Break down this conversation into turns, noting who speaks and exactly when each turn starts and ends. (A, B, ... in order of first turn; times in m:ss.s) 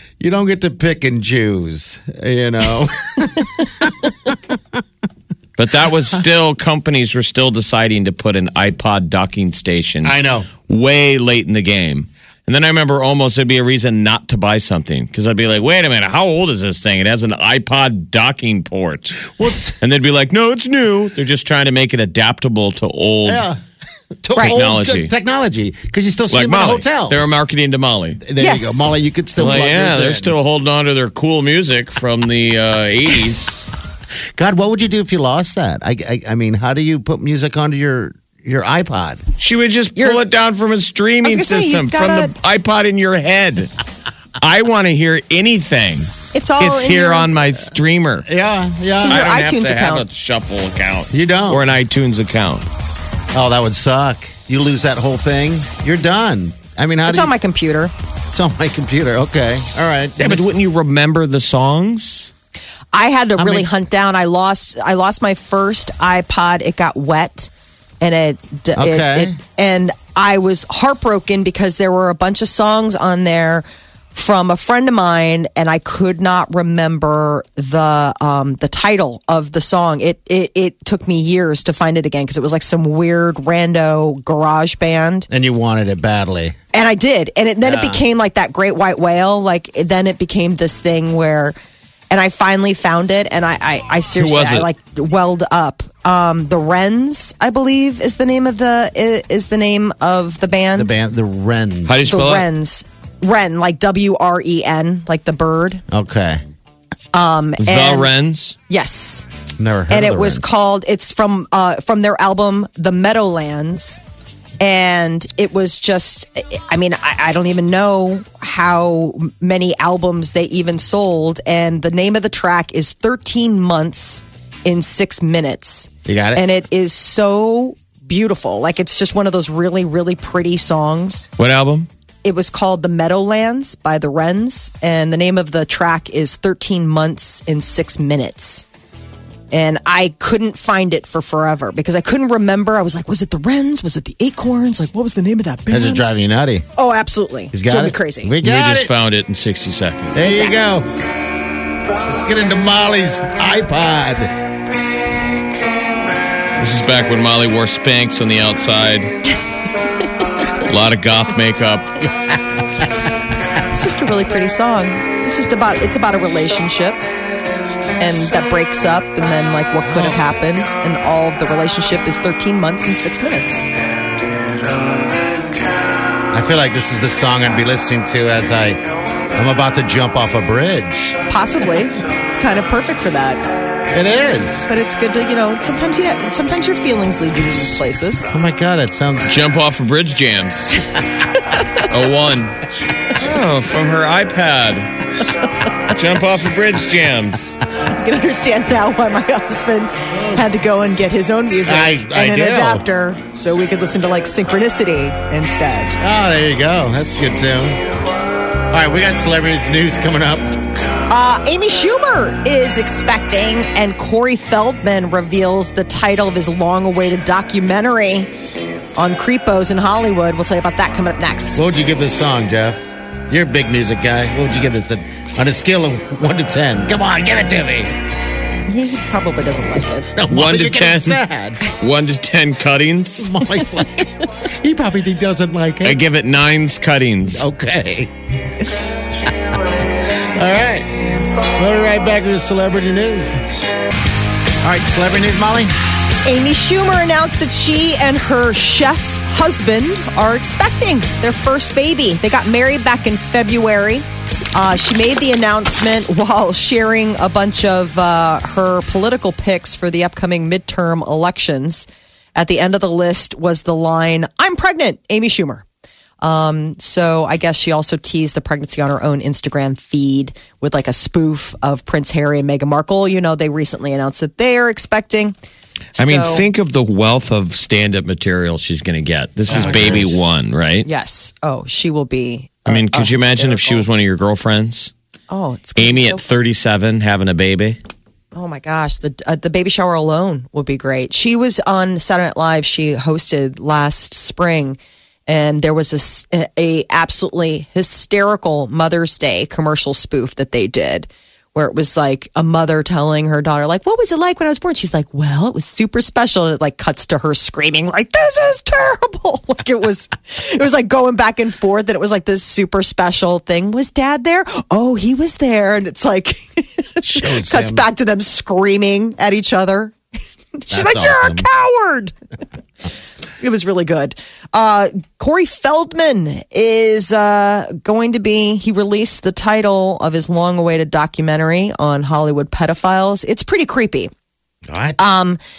0:00.2-0:04.6 A
0:05.6-0:10.1 B
0:10.0-0:10.5 A
0:10.7-0:23.5 B
0:19.2-0:19.8 A
0:23.2-0:23.6 A
0:24.2-0:27.3 A
0:24.4-0:25.1 B
0:26.3-0:28.2 B
0:28.2-0:30.4 A
0:28.4-0:28.8 C
0:29.4-0:33.6 B
0:34.3-0:39.2 A
0:39.4-0:43.7 B
0:39.9-0:40.2 C
0:41.2-0:42.3 C
0:44.4-0:48.3 B
0:46.3-0:47.3 C
0:48.2-0:49.2 A
0:49.0-0:50.0 C
0:49.1-0:52.6 B
0:51.1-0:51.6 A
0:53.3-0:57.3 A
0:57.0-0:57.9 C
0:58.3-1:00.4 A
1:00.2-1:02.3 B
1:02.9-1:25.3 C
1:03.4-1:03.7 A
1:08.7-1:09.4 A
1:25.3-1:26.6 A
1:26.7-1:31.5 C
1:27.6-1:28.0 A
1:32.1-1:40.9 C
1:34.2-1:34.7 B
1:40.7-1:42.2 A
1:41.8-1:42.5 B
1:42.1-1:45.8 C
1:45.9-1:46.4 A
1:47.1-1:48.1 C
1:47.6-1:48.6 B
1:48.7-1:49.3 C
1:49.6-1:50.4 A
1:49.9-1:54.0 C
1:54.6-2:11.3 C
2:06.0-2:06.4 A
2:11.4-2:11.9 B
2:12.2-2:18.6 C
2:19.5-2:26.1 C
2:25.7-2:26.6 A
2:26.8-2:28.3 C
2:27.5-2:28.9 A
2:28.4-2:30.2 B
2:30.1-2:30.9 A
2:30.2-2:30.6 C
2:32.0-2:34.3 A
2:36.6-2:39.2 B
2:40.6-2:41.9 B
2:42.0-2:43.1 A
2:43.7-2:47.0 C
2:48.0-2:53.6 C
2:56.3-3:01.2 A
3:01.3-3:03.4 C
3:03.9-3:04.7 A
3:04.7-3:08.3 C
3:08.3-3:09.3 A
3:09.2-3:10.8 B
3:10.9-3:11.9 C
3:11.8-3:12.6 B
3:13.1-3:15.0 B
3:15.9-3:17.6 B
3:17.8-3:26.0 C
3:20.1-3:20.5 A
3:21.6-3:22.8 A
3:26.0-3:27.8 A
3:28.7-3:30.6 A
3:31.1-3:38.3 C
3:38.9-3:41.6 C
3:41.5-3:47.9 A
3:48.7-3:50.1 C
3:50.1-3:51.6 A
3:50.3-3:53.4 B
3:53.2-3:56.0 A
3:55.8-3:57.4 B
3:57.3-3:58.1 A
3:59.3-4:03.5 A
4:04.6-4:05.7 A
4:06.2-4:25.6 C
4:26.2-4:35.3 C
4:35.9-4:36.4 C
4:36.0-4:40.9 B
4:39.5-4:40.2 A
4:39.5-4:40.0 C
4:40.8-4:43.8 C
4:42.7-4:44.9 B
4:45.3-4:46.2 C
4:45.8-4:47.8 B
4:48.3-5:19.9 C
5:17.0-5:17.8 A
5:20.6-5:22.1 C
5:20.7-5:21.5 A
5:23.4-5:34.1 C
5:34.7-5:35.0 A
5:35.0-5:35.4 C